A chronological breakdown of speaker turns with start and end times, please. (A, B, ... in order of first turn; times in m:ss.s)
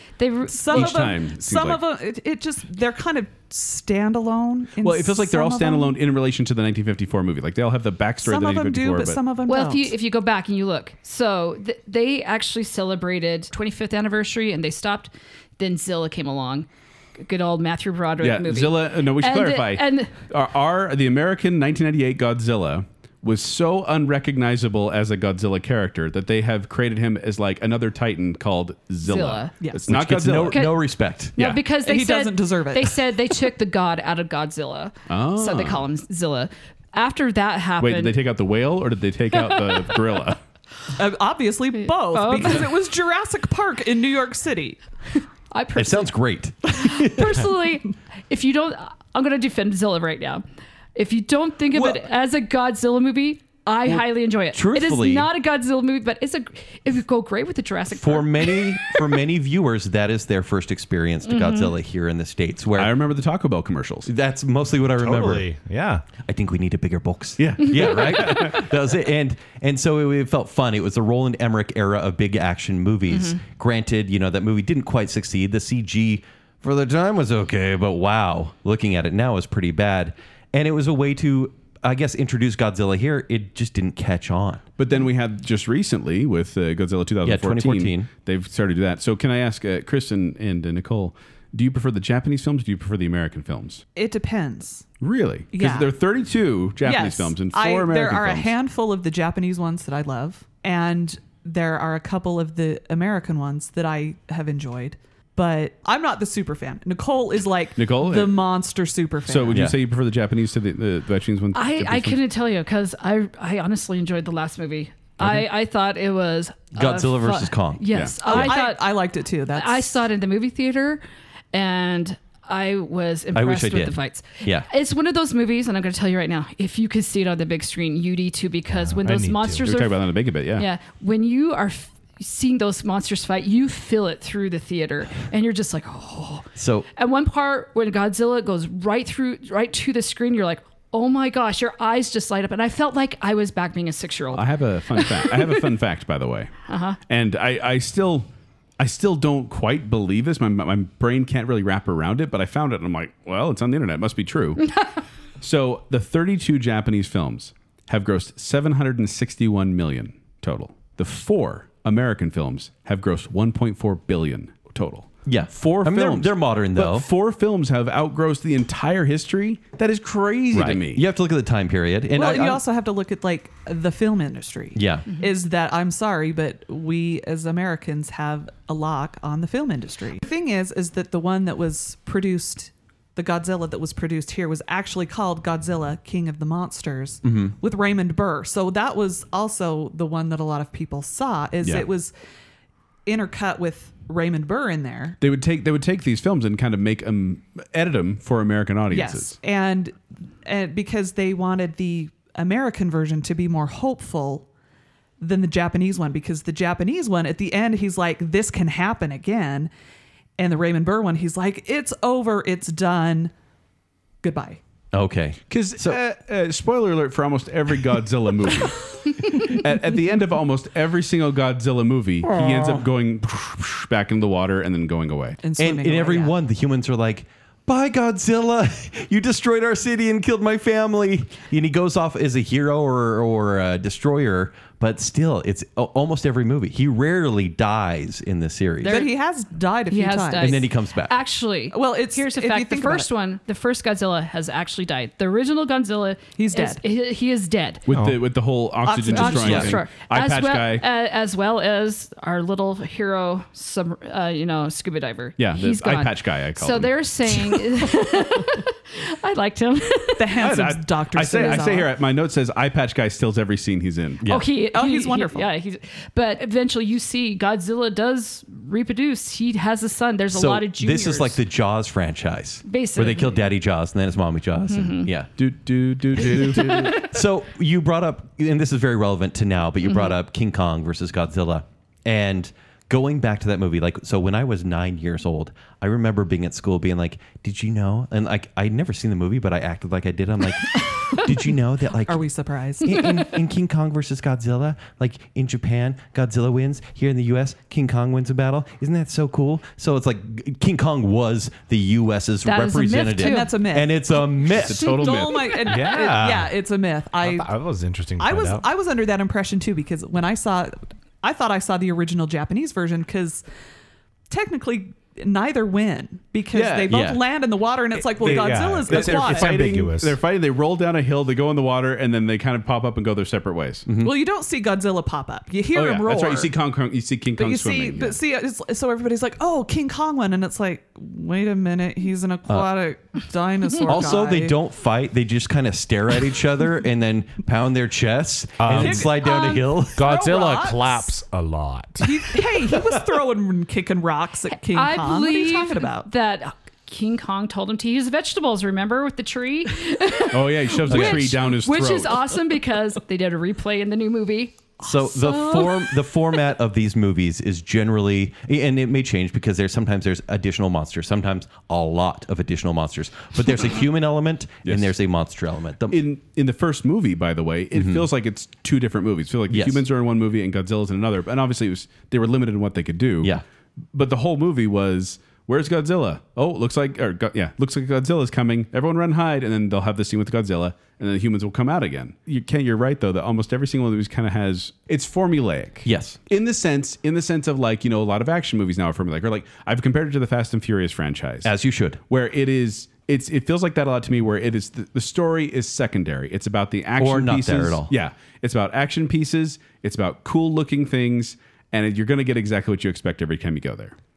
0:00.2-0:01.1 A
0:00.5-0:06.0 B
0:00.7-0:01.8 C
0:04.8-0:09.2 C
0:08.2-0:09.9 B
0:09.5-0:20.1 A
0:18.2-0:30.7 C
0:29.0-0:29.5 A
0:29.6-0:30.0 B
0:29.9-0:31.4 D
0:30.5-0:30.8 A
0:31.3-0:38.2 A
0:31.8-0:33.1 B
0:35.1-0:35.8 C
0:37.8-0:40.4 C
0:39.4-0:40.0 A
0:41.0-0:44.8 B
0:41.8-0:42.7 A
0:45.5-0:46.1 A
0:45.8-0:47.4 D
0:46.7-0:50.4 A
0:50.9-0:59.0 A
0:51.7-0:52.0 B
0:54.5-0:55.3 D
0:57.9-1:03.0 D
1:01.2-1:01.7 A
1:02.7-1:04.1 C
1:04.0-1:05.4 D
1:05.0-1:06.0 E
1:06.2-1:24.6 D
1:07.4-1:08.6 C
1:13.1-1:13.4 A
1:24.8-1:33.8 C
1:27.2-1:28.1 D
1:34.0-1:34.9 B
1:35.0-1:38.5 C
1:35.5-1:35.9 B
1:36.8-1:49.7 B
1:47.8-1:48.5 C
1:49.3-1:52.2 C
1:51.5-1:59.0 A
1:56.7-1:58.5 D
1:57.9-1:58.2 C
1:58.2-1:59.8 B
1:59.5-2:25.6 A
2:03.3-2:04.7 D
2:08.7-2:09.6 E
2:09.6-2:10.7 C
2:16.6-2:16.9 D
2:24.3-2:26.5 C
2:26.7-2:27.0 A
2:27.1-2:28.3 C
2:28.8-2:34.8 C
2:35.4-2:51.0 C
2:45.2-2:47.1 D
2:50.5-2:52.6 D
2:52.1-3:12.1 B
2:54.7-2:55.1 D
3:07.2-3:07.5 D
3:13.0-3:15.2 B
3:15.2-3:19.4 C
3:18.9-3:24.5 B
3:25.2-3:29.7 B
3:30.4-3:33.3 B
3:34.2-3:34.6 B
3:34.9-3:36.0 D
3:35.5-3:45.4 C
3:42.2-3:42.8 D
3:45.4-3:46.3 B
3:45.6-3:59.0 D
3:58.8-3:59.1 A
3:58.8-4:00.6 B
3:59.9-4:07.8 A
4:00.4-4:01.2 D
4:01.7-4:03.1 B
4:06.4-4:06.8 B
4:07.8-4:10.8 C
4:07.9-4:08.2 E
4:08.8-4:09.8 B
4:09.1-4:20.3 A
4:09.4-4:09.7 D
4:15.4-4:17.8 C
4:20.2-4:21.9 B
4:20.4-4:24.2 C
4:24.2-4:24.5 D
4:24.2-4:31.4 A
4:24.7-4:25.5 B
4:30.3-4:35.3 D
4:32.6-4:33.5 A
4:34.7-4:35.1 A
4:35.4-4:37.0 C
4:36.2-4:52.2 D
4:39.9-4:40.1 A
4:52.0-4:53.1 B
4:52.8-5:05.1 D
5:02.4-5:03.6 A
5:03.2-5:04.2 B
5:04.5-5:05.6 C
5:04.8-5:07.5 B
5:05.6-5:06.5 E
5:07.2-5:08.6 E
5:08.2-5:13.4 B
5:14.3-5:19.7 B
5:16.5-5:17.0 C
5:16.9-5:17.2 D
5:18.2-5:20.2 E
5:18.2-5:23.9 C
5:23.8-5:24.1 D
5:24.0-5:26.5 B
5:25.7-5:28.2 C
5:27.4-5:34.6 B
5:33.8-5:40.1 D
5:38.6-5:39.1 E
5:38.7-5:41.1 B
5:39.3-5:39.6 A
5:40.0-5:42.3 E
5:42.0-5:46.1 B
5:44.6-5:56.0 A
5:50.3-5:52.3 C
5:50.9-5:51.4 D
5:54.8-6:06.0 D
6:04.6-6:04.9 C
6:05.9-6:13.3 C
6:07.7-6:08.0 D
6:09.5-6:09.8 D
6:13.9-6:31.5 C
6:25.8-6:26.2 D
6:31.4-6:32.0 D
6:32.1-6:43.9 C
6:37.0-6:37.9 D